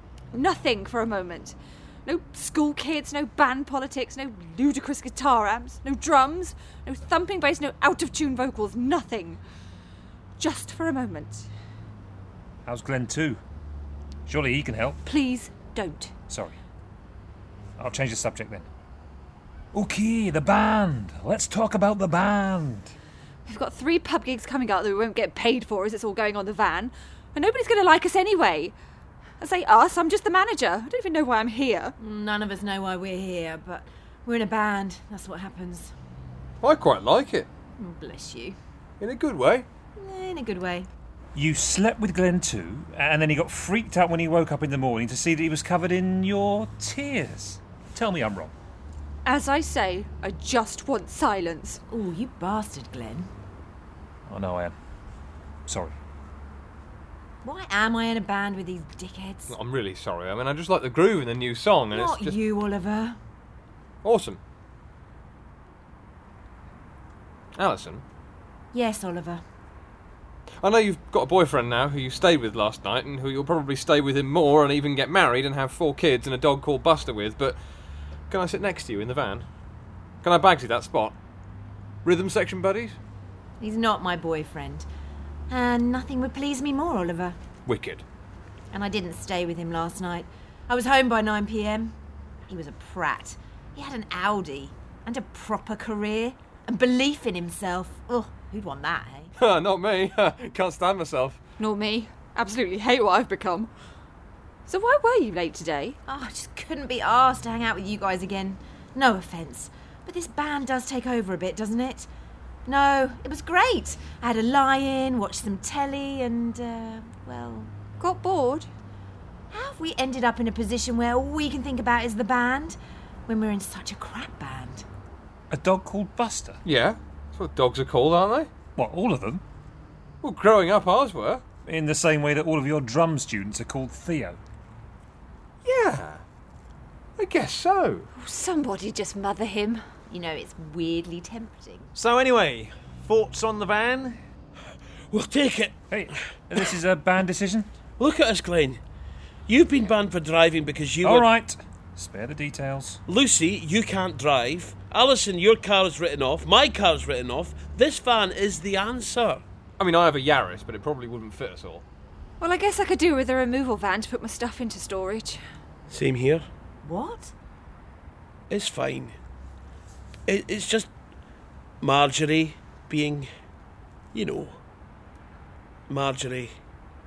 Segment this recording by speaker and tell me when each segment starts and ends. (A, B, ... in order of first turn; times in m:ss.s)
0:00.3-0:09.4 A
0:10.4-0:11.5 A
0:12.6-0:13.4 B
0:14.3-0:15.0 B
0:15.0-0:16.1 A
0:16.3-0:16.6 B
0:17.8-0:18.7 B
0:19.7-0:22.9 B
0:23.5-0:28.7 A
0:29.4-0:31.9 A
0:32.0-0:35.9 C
0:36.6-0:37.5 D
0:37.8-0:38.6 C
0:39.0-0:39.6 D
0:40.0-0:40.9 C
0:41.3-0:48.5 B
0:49.2-0:51.8 A
0:51.9-0:53.3 C
0:54.3-0:54.7 B
0:55.7-0:55.9 B
0:57.4-0:59.5 C
0:59.5-1:02.4 D
1:01.9-1:03.2 C
1:04.0-1:04.4 D
1:07.6-1:08.0 D
1:08.7-1:09.4 C
1:10.6-1:17.6 D
1:18.3-1:19.4 D
1:20.2-1:21.2 D
1:22.0-1:23.0 D
1:23.6-1:24.9 C
1:25.5-1:27.4 C
1:27.6-1:28.0 D
1:28.7-1:31.9 C
1:32.5-1:39.3 C
1:39.4-1:41.4 D
1:41.6-1:43.7 A
1:44.7-1:46.0 A
1:46.1-1:52.1 C
1:52.6-1:57.7 C
1:58.0-1:58.7 A
1:59.5-2:04.8 C
2:05.5-2:06.6 B
2:06.6-2:08.5 D
2:08.7-2:09.4 B
2:10.2-2:11.4 D
2:11.6-2:14.4 B
2:15.6-2:16.2 D
2:17.2-2:18.1 D
2:18.2-2:19.8 A
2:20.1-2:21.9 C
2:21.9-2:24.2 E
2:25.1-2:25.7 F
2:25.9-2:27.7 B
2:28.0-2:28.8 F
2:29.5-2:31.3 F
2:31.0-2:33.0 B
2:33.1-2:39.4 F
2:39.8-2:41.8 D
2:42.4-2:45.4 A
2:45.9-2:46.4 F
2:46.8-2:47.3 C
2:48.5-2:49.2 F
2:50.3-2:50.9 F
2:51.8-2:53.3 F
2:54.1-2:54.6 F
2:55.9-2:56.5 F